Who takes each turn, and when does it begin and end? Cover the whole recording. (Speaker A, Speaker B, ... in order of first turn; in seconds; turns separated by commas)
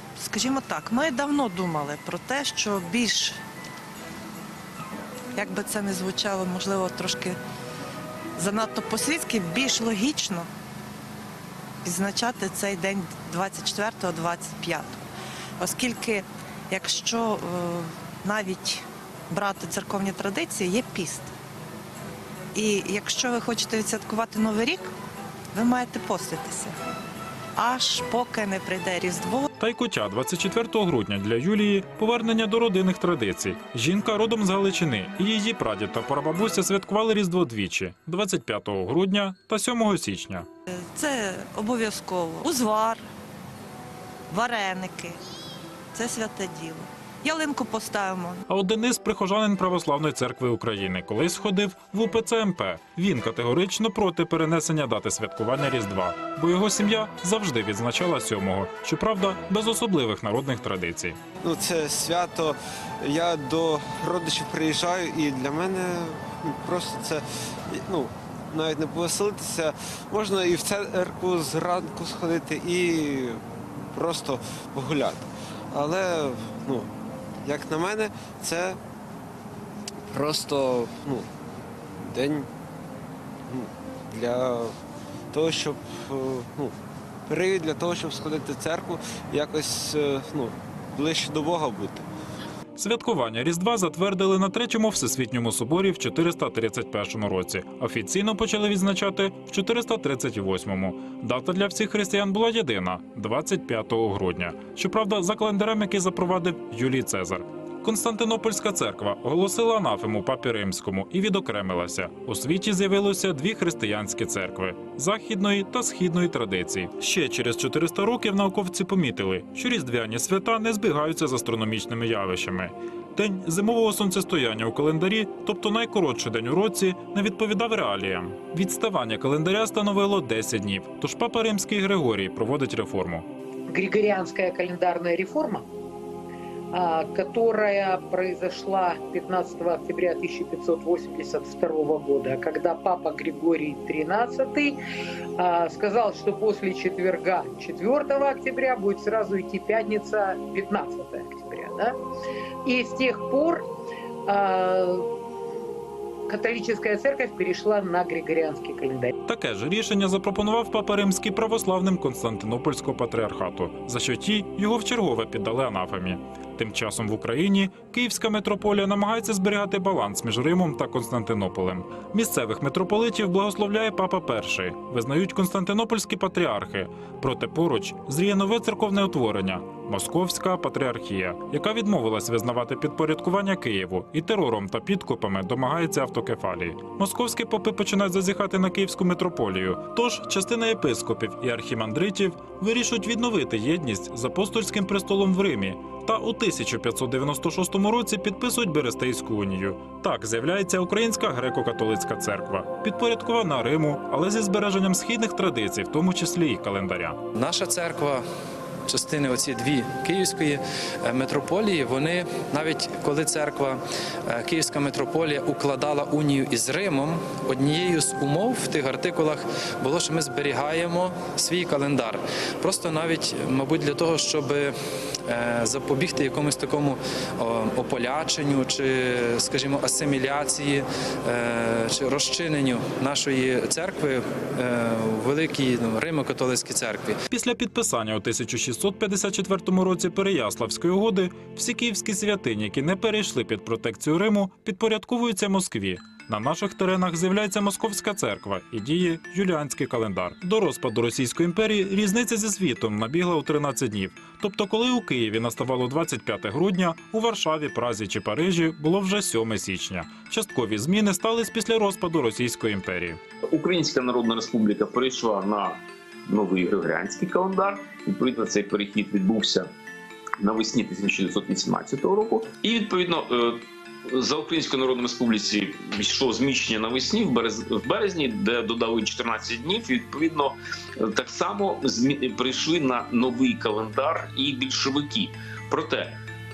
Speaker A: 0.2-3.4, Speaker A: 5.4-7.4, Speaker A: 8.4-10.5, Speaker A: 11.8-15.0, Speaker A: 15.6-21.3, Speaker A: 22.6-24.9, Speaker A: 25.5-26.8, Speaker A: 27.6-29.5, Speaker B: 29.6-40.5, Speaker A: 40.9-43.1, Speaker A: 44.3-45.2, Speaker A: 45.9-48.4, Speaker B: 48.5-61.2, Speaker C: 61.4-73.4, Speaker C: 73.9-76.9, Speaker C: 77.4-78.8, Speaker C: 80.1-81.3, Speaker C: 82.0-82.5, Speaker C: 83.5-84.7, Speaker C: 85.3-86.7, Speaker C: 87.3-92.1, Speaker B: 92.8-133.3, Speaker D: 133.7-135.7, Speaker D: 136.7-144.8, Speaker D: 145.4-152.0, Speaker D: 152.7-153.6, Speaker D: 154.3-155.0, Speaker D: 156.3-159.1, Speaker B: 159.3-207.2, Speaker E: 207.3-208.2, Speaker E: 208.9-224.7, Speaker E: 225.3-237.2, Speaker B: 237.3-263.2, Speaker F: 263.5-269.7, Speaker F: 270.4-286.2